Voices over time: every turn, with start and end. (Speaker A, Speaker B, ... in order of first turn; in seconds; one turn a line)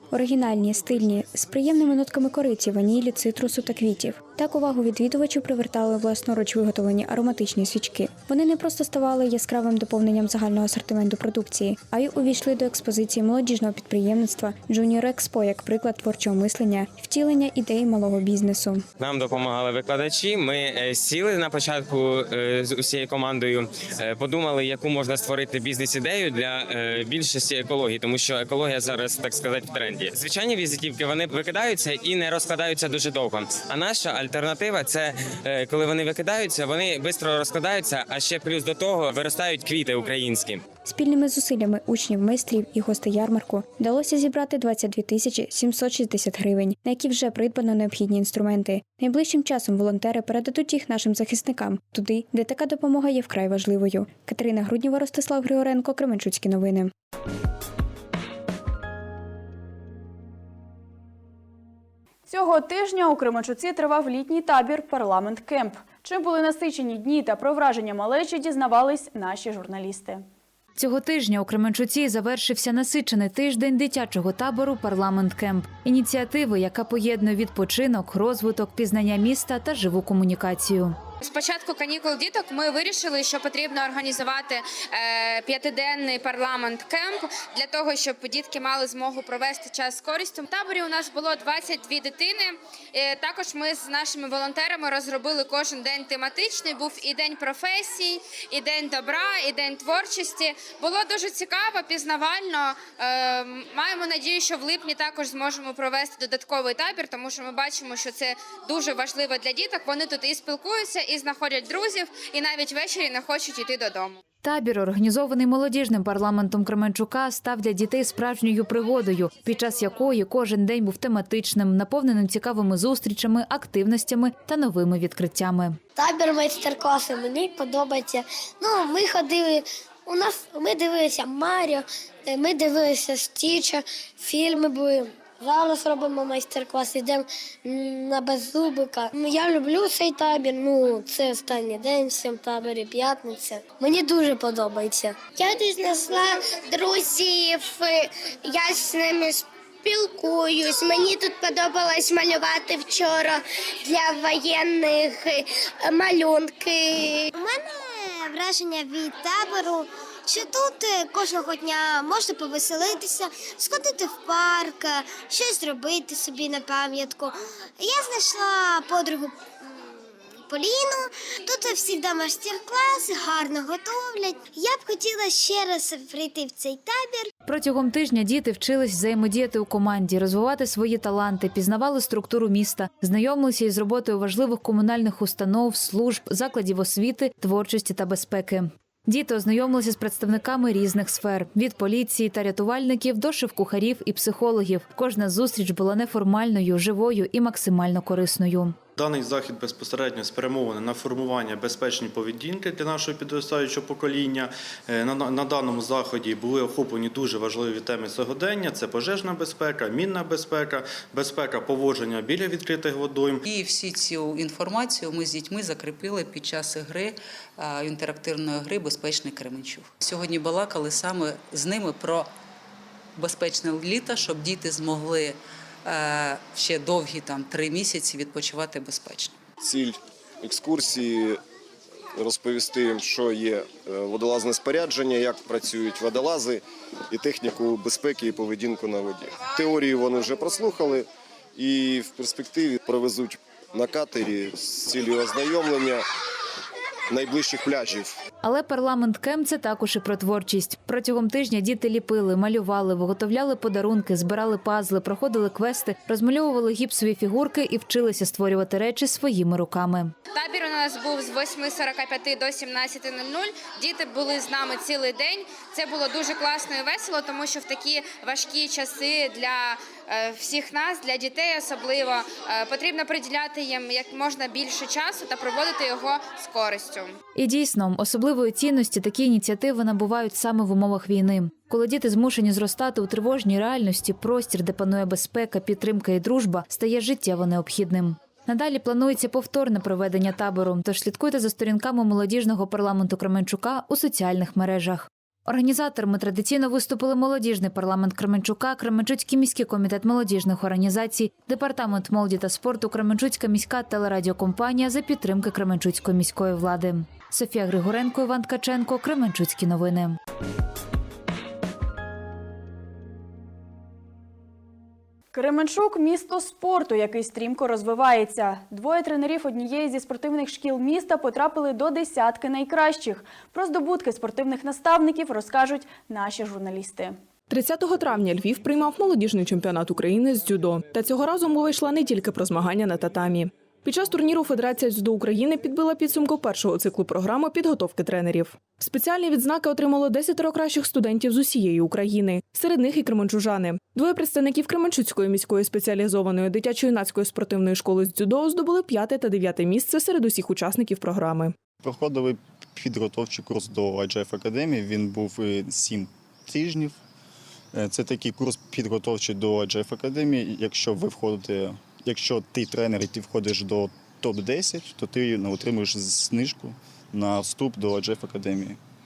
Speaker A: 0.1-18.9
Speaker B: 19.0-40.6
Speaker A: 40.8-56.9
Speaker C: 62.3-70.2
Speaker D: 70.8-81.0
Speaker E: 81.2-114.2
Speaker D: 114.4-125.8
Speaker F: 126.0-177.3
Speaker D: 177.4-198.8
Speaker G: 198.9-213.4
Speaker H: 213.4-222.3
Speaker H: 223.2-229.3
Speaker I: 229.6-231.4
Speaker I: 232.2-246.0
Speaker I: 247.1-248.1
Speaker D: 248.4-260.1
Speaker E: 260.3-277.2
Speaker D: 277.4-310.2
Speaker C: 315.3-327.2
Speaker J: 327.5-351.5
Speaker K: 351.8-357.0
Speaker K: 357.7-368.8